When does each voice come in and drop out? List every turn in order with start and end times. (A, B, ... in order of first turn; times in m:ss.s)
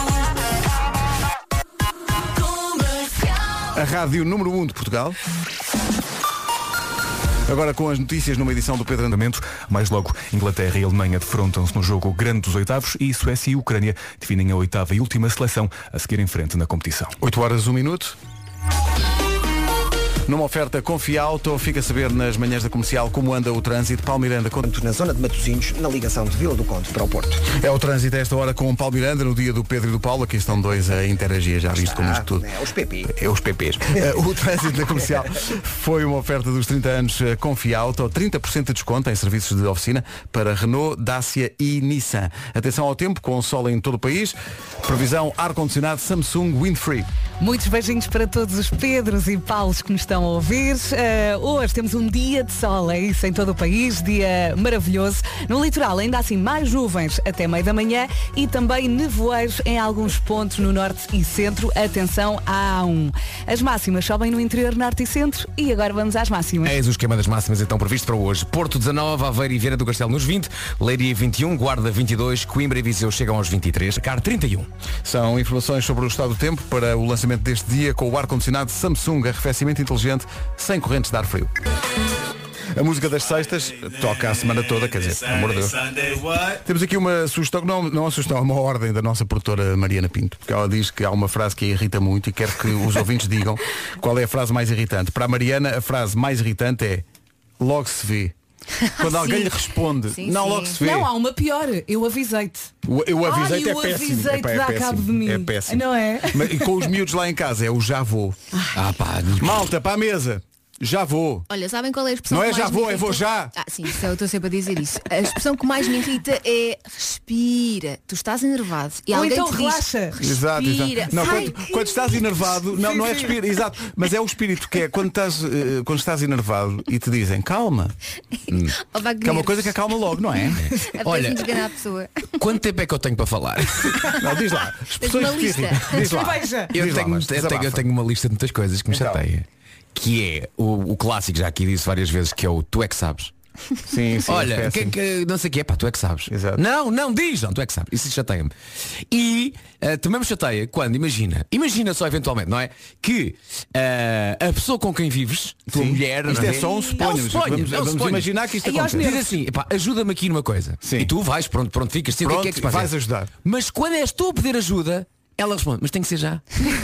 0:03.7-0:05.2 A
0:07.5-0:09.2 A
0:09.1-0:17.2 B
0:17.2-0:18.2 A
0:20.3-0:24.7 A
0:24.6-0:27.4 C
0:27.5-0:32.5 A
0:31.8-0:33.1 C
0:33.0-0:47.1 A
0:47.4-1:06.8 D
1:06.6-1:14.7 E
1:15.0-1:21.5 A
1:22.7-1:37.0 A
1:37.6-1:38.3 A
1:38.8-1:40.8 F
1:39.0-1:41.1 A
1:40.8-1:42.7 D
1:42.8-1:48.4 A
1:43.2-1:46.7 D
1:48.5-1:48.8 D
1:48.7-1:49.6 E
1:49.4-1:51.5 A
1:51.5-2:01.6 F
1:52.3-1:53.5 A
1:59.1-2:00.2 D
2:00.2-2:07.9 A
2:01.1-2:01.6 D
2:02.7-2:03.3 D
2:08.5-2:08.8 E
2:08.8-2:09.8 F
2:09.2-2:10.6 A
2:10.7-2:11.6 E
2:10.8-2:12.1 F
2:12.4-2:14.1 E
2:14.2-2:17.8 A
2:15.0-2:16.0 F
2:16.0-2:16.8 D
2:16.7-2:23.3 E
2:18.9-2:19.2 A
2:23.9-2:25.0 A
2:24.3-2:28.5 E
2:26.3-2:26.6 A
2:29.1-2:38.3 E
2:35.7-2:39.1 A
2:36.4-2:37.0 D
2:38.6-2:39.4 D
2:38.9-2:42.9 E
2:40.8-2:41.1 A
2:42.2-2:43.3 A
2:43.4-2:46.4 E